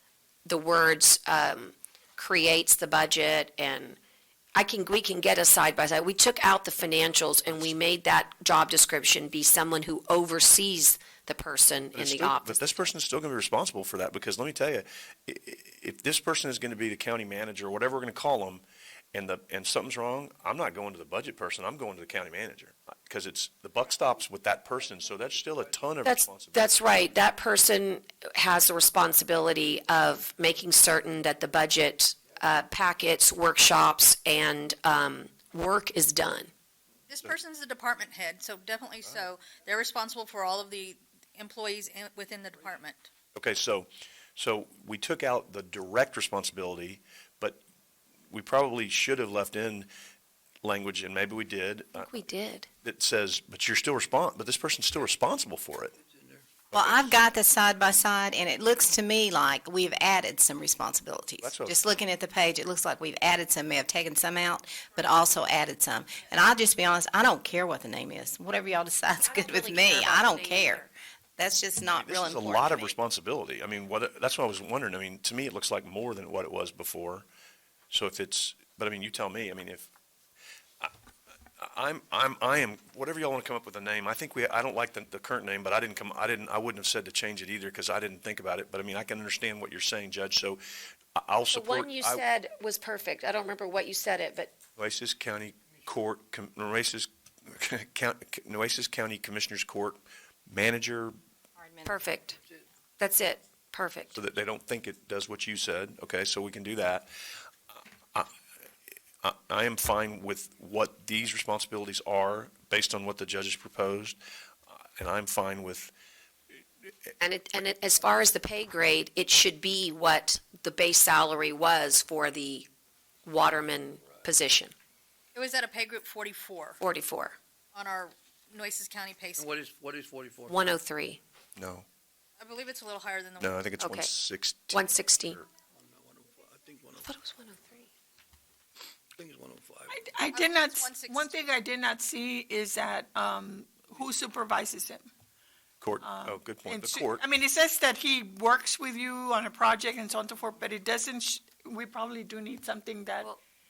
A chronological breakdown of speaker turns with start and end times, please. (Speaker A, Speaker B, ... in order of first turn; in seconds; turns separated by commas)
Speaker A: 0.5-4.0, Speaker A: 4.5-12.9, Speaker B: 11.9-26.8, Speaker A: 26.0-36.5, Speaker C: 37.1-43.1, Speaker B: 43.3-47.6, Speaker B: 48.3-49.9, Speaker B: 50.6-52.1, Speaker A: 52.0-52.7, Speaker B: 52.8-55.9, Speaker D: 56.0-56.7, Speaker B: 56.7-57.3, Speaker E: 56.8-70.8, Speaker B: 61.4-61.8, Speaker A: 69.2-70.9, Speaker E: 71.4-72.9, Speaker B: 71.9-77.3, Speaker B: 77.9-79.9, Speaker B: 81.6-90.6, Speaker B: 91.2-92.2, Speaker A: 91.5-94.5, Speaker B: 94.8-101.1, Speaker A: 101.8-102.4, Speaker A: 103.0-104.2, Speaker B: 104.1-107.3, Speaker B: 109.2-114.2, Speaker B: 114.7-115.9, Speaker A: 117.2-122.7, Speaker A: 123.2-124.7, Speaker C: 125.3-126.8, Speaker A: 126.8-127.4, Speaker C: 127.7-129.5, Speaker D: 129.4-130.7, Speaker A: 130.5-131.2, Speaker B: 131.6-131.9, Speaker C: 132.4-133.6, Speaker B: 133.4-135.4, Speaker A: 133.8-134.1, Speaker A: 134.7-135.4, Speaker D: 135.7-137.1, Speaker A: 137.0-137.9, Speaker D: 139.2-140.0, Speaker F: 139.9-145.1, Speaker C: 140.3-141.4, Speaker B: 145.8-147.2, Speaker F: 146.0-153.3